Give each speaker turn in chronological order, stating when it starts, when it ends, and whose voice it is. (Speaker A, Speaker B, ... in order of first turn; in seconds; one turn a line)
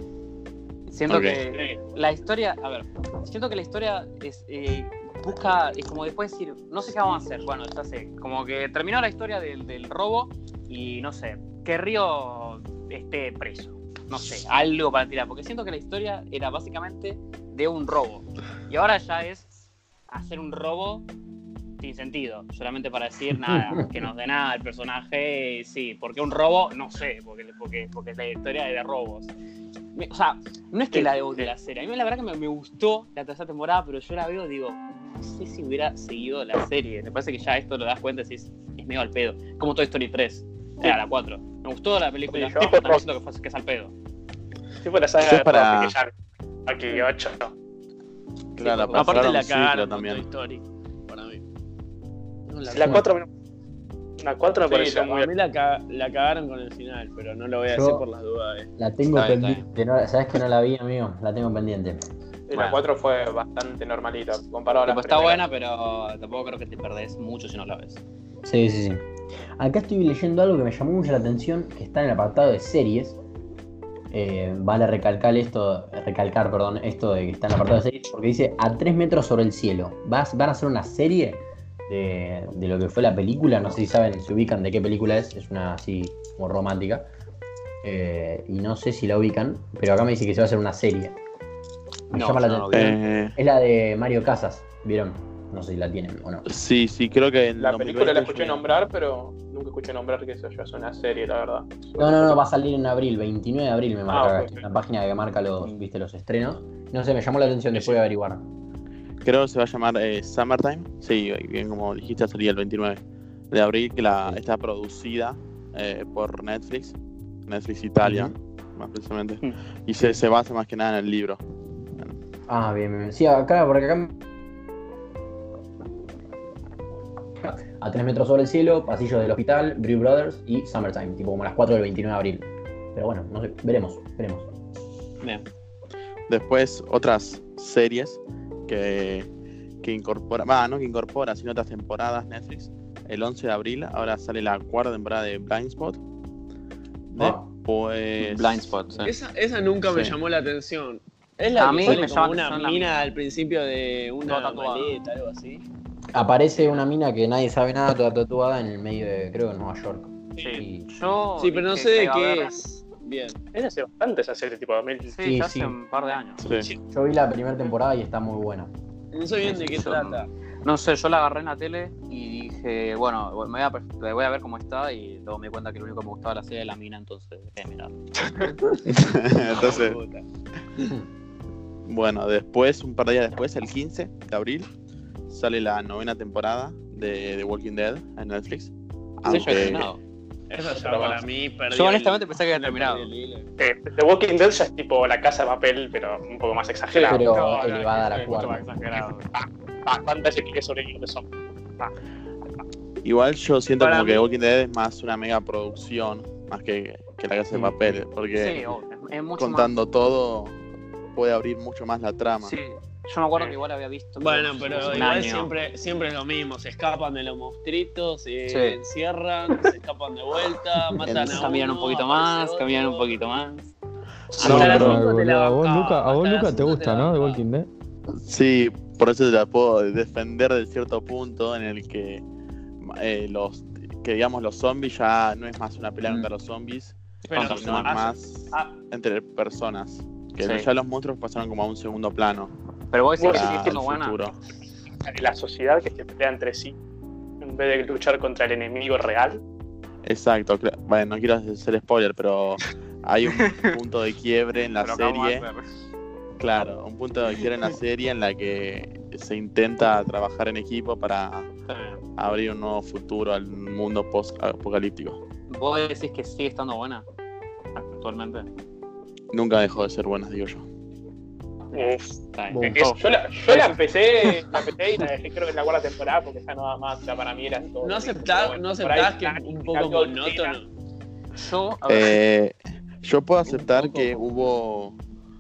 Speaker A: 0.9-19.5
Speaker B: 1.1-1.4
Speaker A: 20.1-21.1
Speaker A: 21.8-29.3
Speaker C: 23.5-23.9
Speaker A: 29.9-43.9
Speaker D: 30.9-31.5
Speaker D: 42.3-43.1
Speaker D: 44.8-46.1
Speaker B: 45.2-45.9
Speaker D: 46.6-47.5
Speaker B: 48.6-50.3
Speaker A: 48.6-49.3
Speaker E: 48.9-51.4
Speaker E: 52.5-53.0
Speaker D: 52.6-53.3
Speaker D: 54.2-55.3
Speaker E: 54.7-58.7
Speaker C: 57.7-58.0
Speaker C: 58.8-62.0
Speaker A: 59.1-59.6
Speaker F: 62.5-65.4
Speaker A: 62.5-62.8
Speaker A: 64.9-68.0
Speaker C: 68.4-69.0
Speaker C: 69.6-73.2
Speaker C: 74.1-87.1
Speaker C: 87.8-91.2
Speaker C: 92.1-96.4
Speaker A: 92.1-93.0
Speaker B: 92.7-93.3
Speaker B: 96.4-98.6
Speaker F: 97.6-102.4
Speaker C: 102.0-108.5
Speaker F: 104.1-104.6
Speaker B: 109.2-121.4
Speaker C: 118.0-118.3
Speaker C: 122.5-124.1
Speaker C: 127.4-134.5
Speaker B: 136.3-139.3
Speaker B: 139.8-146.0
Speaker B: 147.1-149.1
Speaker C: 147.2-147.4
Speaker A: 148.2-149.1
Speaker E: 149.1-155.6
Speaker B: 149.8-150.2
Speaker A: 151.5-153.1
Speaker A: 154.2-155.0
Speaker C: 156.1-160.9
Speaker A: 156.5-156.8
Speaker A: 160.4-162.6
Speaker E: 161.4-163.4
Speaker D: 163.5-165.1
Speaker A: 165.0-166.4
Speaker C: 165.2-165.8
Speaker B: 166.4-166.7
Speaker C: 166.9-168.7
Speaker E: 169.1-170.3
Speaker A: 169.5-178.0
Speaker B: 178.9-180.0
Speaker E: 179.4-180.2
Speaker B: 181.9-184.7
Speaker B: 185.3-189.9
Speaker A: 189.2-190.0
Speaker E: 190.5-193.5
Speaker D: 190.6-191.2
Speaker A: 191.7-193.1
Speaker D: 193.6-201.9
Speaker F: 196.9-197.3
Speaker C: 197.1-198.6
Speaker A: 198.1-199.2
Speaker B: 203.0-208.7
Speaker A: 208.3-209.7
Speaker B: 209.4-210.6
Speaker B: 211.1-212.5
Speaker A: 212.4-215.5
Speaker E: 214.2-223.2
Speaker B: 214.8-215.2
Speaker A: 218.5-218.8
Speaker B: 221.1-221.5
Speaker A: 221.3-223.7
Speaker A: 224.4-225.0
Speaker E: 224.4-227.4
Speaker G: 224.4-227.7
Speaker B: 224.4-225.0
Speaker B: 228.2-232.2
Speaker B: 232.8-242.5
Speaker F: 237.3-238.7
Speaker A: 237.4-237.9
Speaker E: 237.5-237.9
Speaker A: 240.4-240.7
Speaker A: 242.9-244.2
Speaker D: 243.2-243.7
Speaker B: 243.2-244.3
Speaker D: 245.1-246.7
Speaker D: 247.4-249.4
Speaker B: 250.0-255.4
Speaker A: 254.8-255.7
Speaker B: 256.4-261.5
Speaker A: 261.7-262.0
Speaker B: 262.2-265.2
Speaker A: 265.5-267.1
Speaker A: 267.7-268.5
Speaker B: 269.3-270.6
Speaker D: 271.7-272.2
Speaker A: 272.3-273.0
Speaker C: 272.5-272.8
Speaker F: 272.7-280.6
Speaker A: 273.5-273.7
Speaker E: 277.8-280.7
Speaker A: 281.4-282.2
Speaker B: 281.9-285.0
Speaker A: 283.5-284.2